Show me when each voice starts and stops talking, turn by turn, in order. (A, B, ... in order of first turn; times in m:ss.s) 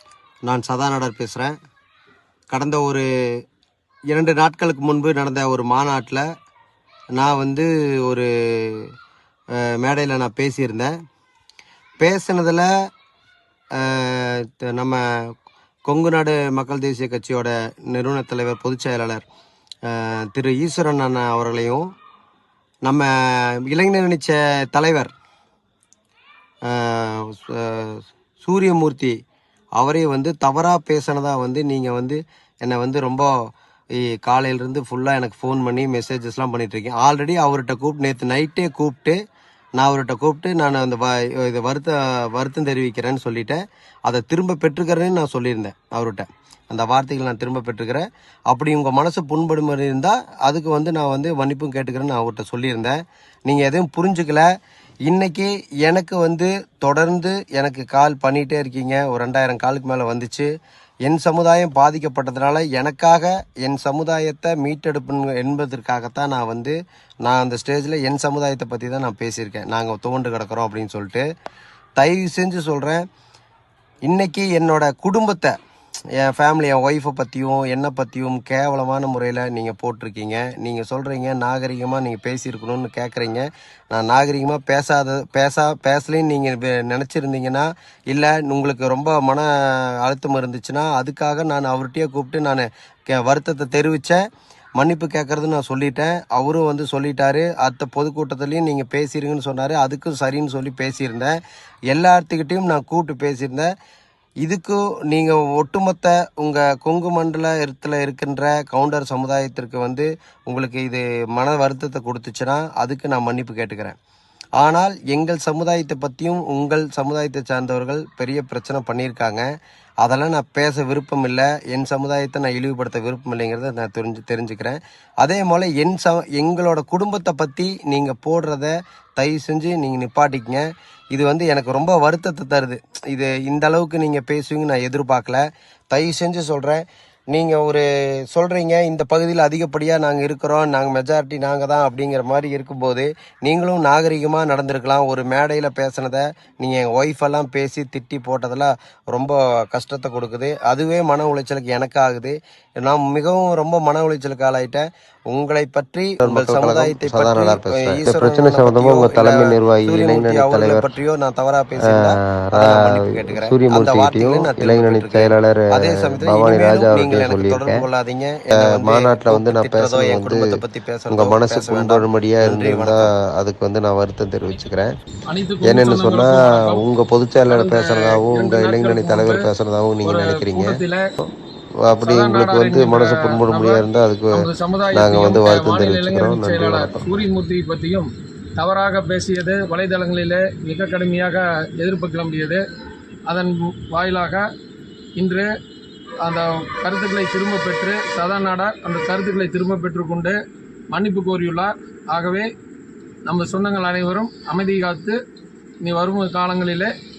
0:00.4-0:01.5 A
0:02.5-0:03.1 A
0:04.1-0:06.2 A
0:07.1-0:08.9 A
0:09.5-0:10.9 A
0:12.0-0:12.7 A
0:13.7-0:15.3 A
0:15.9-0:19.2 A
0:19.8-0:21.9 A
0:22.8-0:25.1 A
0:26.6-0:29.2 A
0:29.8-0:33.5 A
0:34.1-0:39.2 A
0:39.8-0:54.5 A
0:55.0-1:00.5 A
1:01.0-1:11.2 A
1:12.0-1:13.0 A
1:14.0-1:15.6 A
1:16.2-1:34.2 A
1:34.8-1:41.3 A
1:41.9-1:43.7 A
1:44.4-1:54.0 A
1:54.6-1:59.4 A
2:00.0-2:53.1 A
2:36.2-2:40.9 B
2:41.9-2:47.8 B
2:48.6-2:50.6 B
2:51.1-2:54.9 B
2:55.3-2:56.8 C
2:55.8-3:00.6 B
2:57.5-2:59.5 C
2:58.6-2:59.5 A
3:00.0-3:01.0 C
3:00.1-3:00.7 A
3:02.0-3:12.6 C
3:02.1-3:04.0 A
3:02.3-3:04.4 B
3:05.0-3:07.2 B
3:05.2-3:05.8 A
3:13.3-3:14.5 C
3:15.2-3:15.5 C
3:16.2-3:20.4 C
3:20.9-3:22.5 C
3:23.2-3:25.2 C
3:25.8-3:26.9 C